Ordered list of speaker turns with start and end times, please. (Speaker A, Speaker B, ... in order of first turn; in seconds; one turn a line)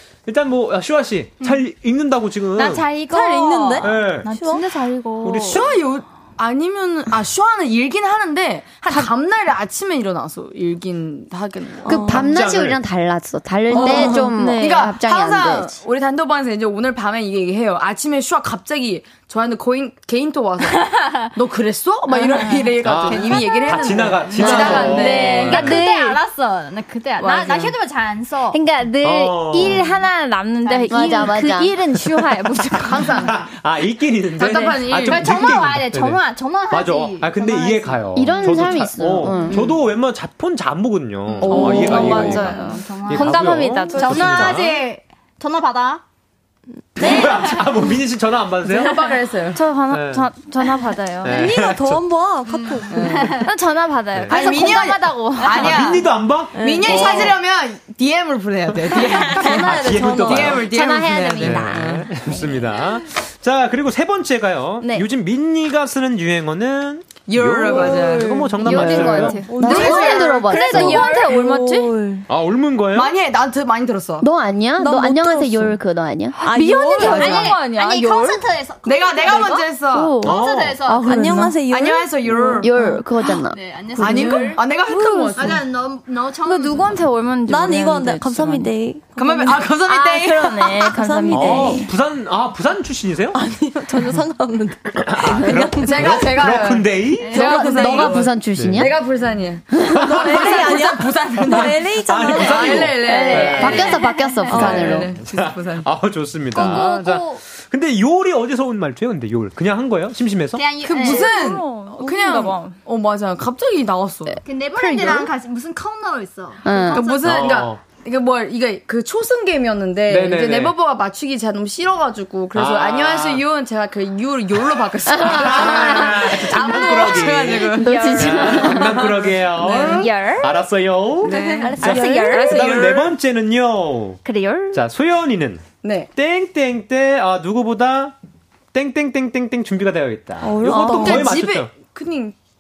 Speaker A: 0.3-2.9
Speaker B: 2.6-3.9
Speaker C: 2.7-5.6
Speaker D: 3.1-4.7
Speaker A: 3.8-4.3
Speaker A: 5.2-5.7
Speaker E: 5.5-12.0
Speaker D: 11.8-12.3
Speaker F: 11.9-15.8
Speaker A: 12.1-12.8
Speaker D: 13.7-14.5
Speaker E: 13.7-25.6
Speaker B: 20.8-21.3
Speaker B: 22.2-22.8
Speaker A: 22.8-25.8
Speaker C: 24.4-26.2
Speaker B: 24.4-28.6
Speaker E: 27.2-27.8
Speaker C: 28.5-33.3
Speaker A: 29.0-29.9
Speaker B: 30.6-31.4
Speaker F: 30.9-31.8
Speaker E: 32.9-33.5
Speaker A: 33.2-44.8
Speaker E: 34.4-35.7
Speaker B: 34.9-38.1
Speaker F: 38.1-39.7
Speaker C: 41.4-44.5
Speaker E: 41.4-42.4
Speaker B: 41.5-46.0
Speaker D: 44.0-44.5
Speaker A: 47.0-49.0
Speaker E: 48.7-49.6
Speaker C: 49.5-51.4
Speaker A: 49.9-50.3
Speaker A: 51.2-52.0
Speaker D: 51.2-53.4
Speaker B: 52.5-53.5
Speaker E: 52.9-53.3
Speaker C: 53.4-55.9
Speaker A: 54.1-54.4
Speaker E: 54.3-62.1
Speaker A: 55.5-57.4
Speaker D: 56.5-57.3
Speaker B: 56.9-57.3
Speaker D: 59.1-60.7
Speaker A: 59.3-60.7
Speaker B: 60.6-62.6
Speaker A: 61.4-69.4
Speaker E: 67.3-68.5
Speaker D: 67.7-72.3
Speaker F: 68.6-71.1
Speaker C: 68.7-71.9
Speaker E: 69.6-71.0
Speaker B: 69.7-71.3
Speaker A: 72.3-73.1
Speaker E: 72.9-74.3
Speaker F: 74.2-76.4
Speaker D: 74.8-75.8
Speaker C: 76.4-78.4
Speaker D: 76.4-77.5
Speaker E: 76.9-77.6
Speaker B: 77.0-81.2
Speaker E: 78.8-80.3
Speaker A: 80.2-80.9
Speaker D: 80.9-82.7
Speaker F: 81.1-81.3
Speaker C: 81.1-81.5
Speaker E: 81.6-83.0
Speaker F: 82.6-84.5
Speaker B: 83.2-84.6
Speaker E: 84.0-85.6
Speaker D: 84.9-85.5
Speaker B: 85.3-87.1
Speaker C: 86.4-88.7
Speaker D: 87.5-89.7
Speaker E: 89.2-90.8
Speaker C: 89.8-91.9
Speaker D: 90.8-91.8
Speaker A: 91.3-93.4
Speaker F: 91.3-91.8
Speaker D: 93.3-95.8
Speaker A: 95.0-97.4
Speaker E: 95.7-104.0
Speaker B: 97.2-98.1
Speaker F: 97.3-99.0
Speaker D: 97.7-98.1
Speaker A: 98.5-98.9
Speaker D: 100.0-103.2
Speaker A: 100.0-100.3
Speaker A: 101.5-104.0
Speaker B: 103.0-104.5
Speaker F: 103.1-105.1
Speaker D: 104.5-104.9
Speaker A: 104.5-110.7
Speaker E: 104.5-105.9
Speaker B: 106.5-107.4
Speaker B: 110.5-111.5
Speaker E: 110.8-114.4
Speaker C: 110.9-112.8
Speaker B: 114.4-117.6
Speaker F: 114.8-115.3
Speaker F: 116.6-117.0
Speaker E: 116.9-128.2
Speaker A: 117.2-117.8
Speaker A: 120.1-120.8
Speaker A: 122.5-123.4
Speaker A: 125.2-134.2
Speaker C: 127.7-129.1
Speaker F: 127.8-129.2
Speaker E: 128.8-130.1
Speaker C: 129.7-130.6
Speaker E: 131.2-133.2
Speaker D: 131.3-132.6
Speaker C: 131.3-132.9
Speaker C: 134.2-134.8
Speaker A: 134.7-135.6
Speaker E: 135.8-136.1
Speaker A: 136.2-138.2
Speaker A: 138.7-141.7
Speaker D: 140.4-141.3
Speaker E: 140.7-142.4